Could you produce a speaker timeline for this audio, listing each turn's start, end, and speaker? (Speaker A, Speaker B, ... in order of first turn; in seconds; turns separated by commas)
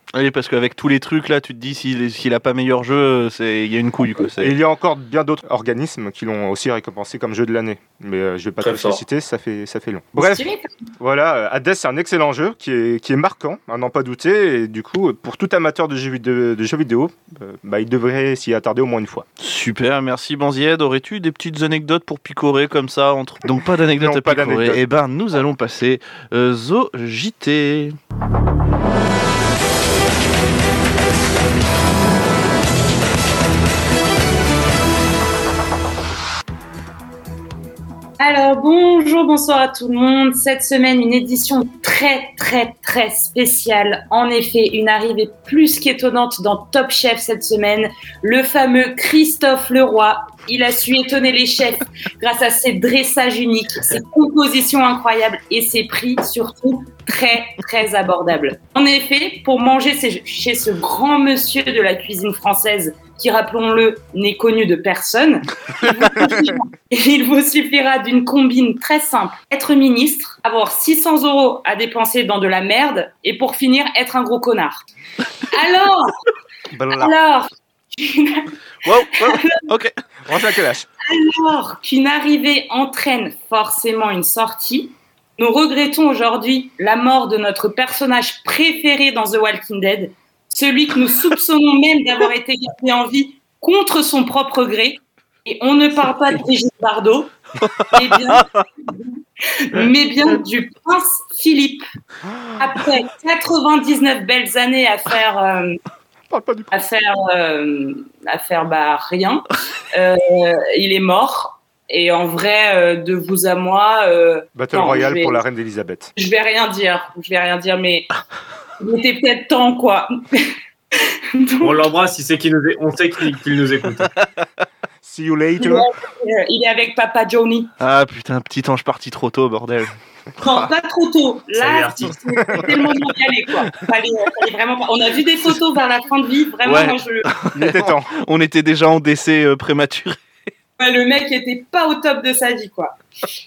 Speaker A: 0.1-4.5, Speaker B: 4.4-10.4, Speaker C: 8.6-9.0, Speaker D: 10.2-10.7, Speaker B: 11.0-19.2, Speaker A: 19.4-27.9, Speaker B: 24.0-24.8, Speaker D: 38.2-74.8, Speaker D: 75.5-76.1, Speaker B: 76.7-77.1, Speaker D: 76.9-78.5, Speaker A: 78.8-79.9, Speaker D: 79.1-79.6, Speaker B: 80.3-80.9, Speaker D: 81.0-97.3, Speaker A: 97.6-98.6, Speaker D: 97.9-101.8, Speaker D: 102.6-105.8, Speaker B: 106.3-106.7, Speaker D: 106.7-115.4, Speaker B: 114.5-116.1, Speaker D: 116.2-118.1, Speaker D: 118.8-121.9, Speaker C: 121.6-124.1, Speaker A: 124.2-124.4, Speaker B: 125.0-125.9, Speaker D: 125.6-127.7, Speaker A: 127.8-130.7, Speaker D: 130.4-137.3, Speaker C: 131.6-132.2, Speaker A: 136.6-140.2, Speaker B: 137.5-138.1, Speaker D: 140.8-143.0